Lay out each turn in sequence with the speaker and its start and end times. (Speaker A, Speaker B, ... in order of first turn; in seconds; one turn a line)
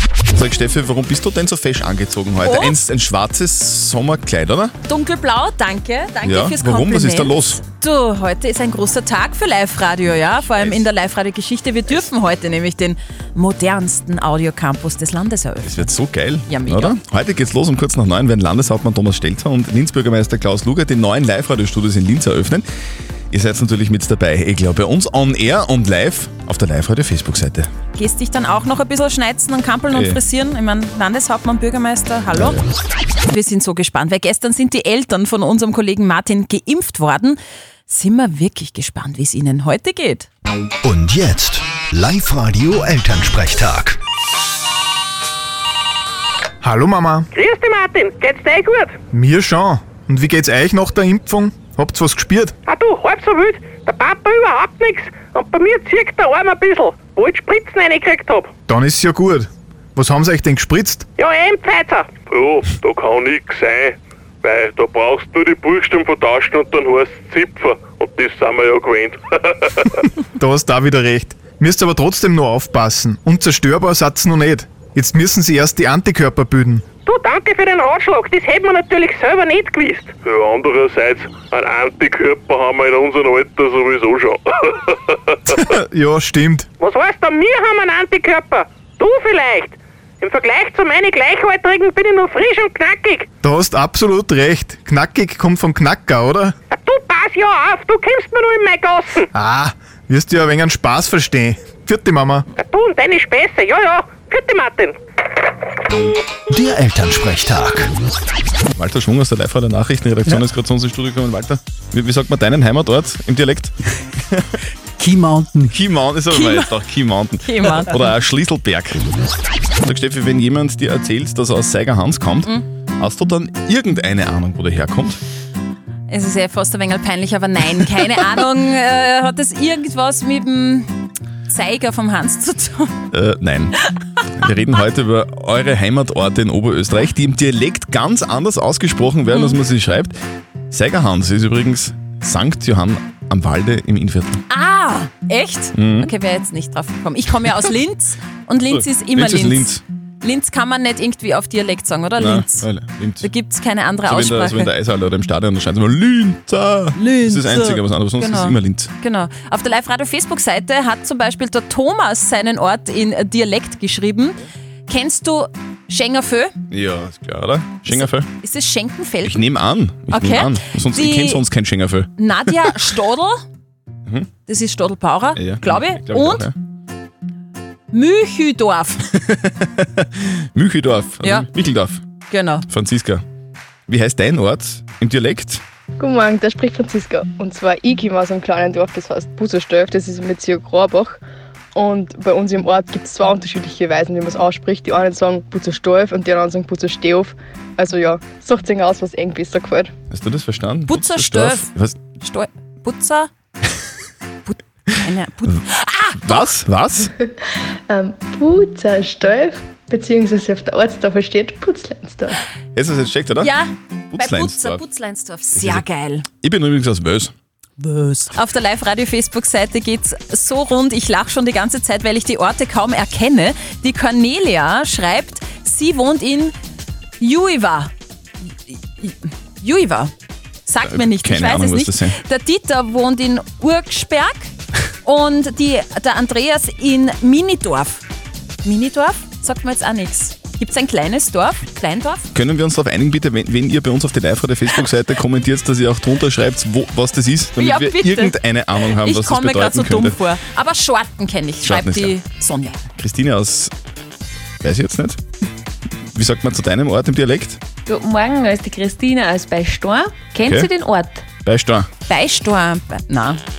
Speaker A: 0.3-4.7
Speaker B: 2.4-2.8
Speaker B: 4.9-15.9
Speaker A: 6.2-7.6
Speaker A: 10.1-10.9
Speaker A: 15.6-22.6
Speaker B: 16.5-16.9
Speaker A: 23.3-27.7
Speaker B: 27.9-32.6
Speaker A: 29.9-30.2
Speaker A: 32.3-32.6
Speaker B: 33.3-40.3
Speaker C: 40.8-44.0
Speaker D: 46.6-47.3
Speaker E: 47.3-49.0
Speaker D: 49.1-52.5
Speaker E: 52.7-58.5
Speaker D: 58.7-61.0
Speaker E: 61.2-62.1
Speaker F: 62.3-70.0
Speaker D: 70.4-76.8
Speaker E: 77.1-80.1
Speaker F: 80.2-85.4
Speaker D: 85.5-86.7
Speaker E: 86.8-93.3
Speaker D: 93.4-96.5
Speaker E: 96.7-99.3
Speaker D: 99.3-102.5
Speaker E: 102.6-105.0
Speaker C: 106.5-107.9
Speaker A: 108.7-114.5
Speaker A: 115.7-119.0
Speaker B: 116.3-116.8
Speaker B: 117.4-118.0
Speaker A: 119.8-125.2
Speaker B: 126.1-130.9
Speaker B: 131.5-132.9
Speaker A: 133.1-133.8
Speaker A: 134.4-140.2
Speaker B: 139.3-139.6
Speaker A: 140.7-144.4
Speaker B: 144.5-152.7
Speaker A: 145.8-146.1
Speaker A: 148.7-149.8
Speaker A: 152.2-153.3
Speaker B: 153.2-154.7
Speaker A: 154.0-158.9
Speaker B: 157.0-166.5
Speaker A: 166.7-168.3
Speaker B: 167.9-169.5
Speaker A: 169.2-172.7
Speaker B: 170.1-171.4
Speaker B: 172.2-173.4
Speaker B: 174.5-176.5
Speaker A: 175.3-176.5
Speaker B: 177.9-179.1
Speaker A: 179.2-182.0
Speaker B: 182.3-182.7
Speaker A: 182.7-183.2
Speaker A: 183.9-185.6
Speaker G: 186.0-191.2
Speaker G: 191.8-199.9
Speaker A: 200.1-202.0
Speaker B: 200.9-203.3
Speaker B: 204.4-206.5
Speaker A: 206.2-207.1
Speaker G: 207.9-212.4
Speaker A: 212.7-213.5
Speaker B: 213.4-216.3
Speaker A: 214.1-214.8
Speaker A: 215.6-215.8
Speaker A: 216.4-217.3
Speaker B: 218.3-226.5
Speaker B: 227.2-227.9
Speaker B: 228.7-230.1
Speaker B: 230.7-234.5
Speaker A: 230.8-232.2
Speaker B: 235.0-238.0
Speaker B: 238.6-242.3
Speaker A: 242.3-250.2
Speaker B: 247.6-252.9
Speaker A: 251.6-252.2
Speaker A: 253.0-253.7
Speaker A: 254.6-255.2
Speaker A: 256.1-257.6
Speaker H: 257.9-261.2
Speaker A: 261.4-261.9
Speaker B: 262.1-263.4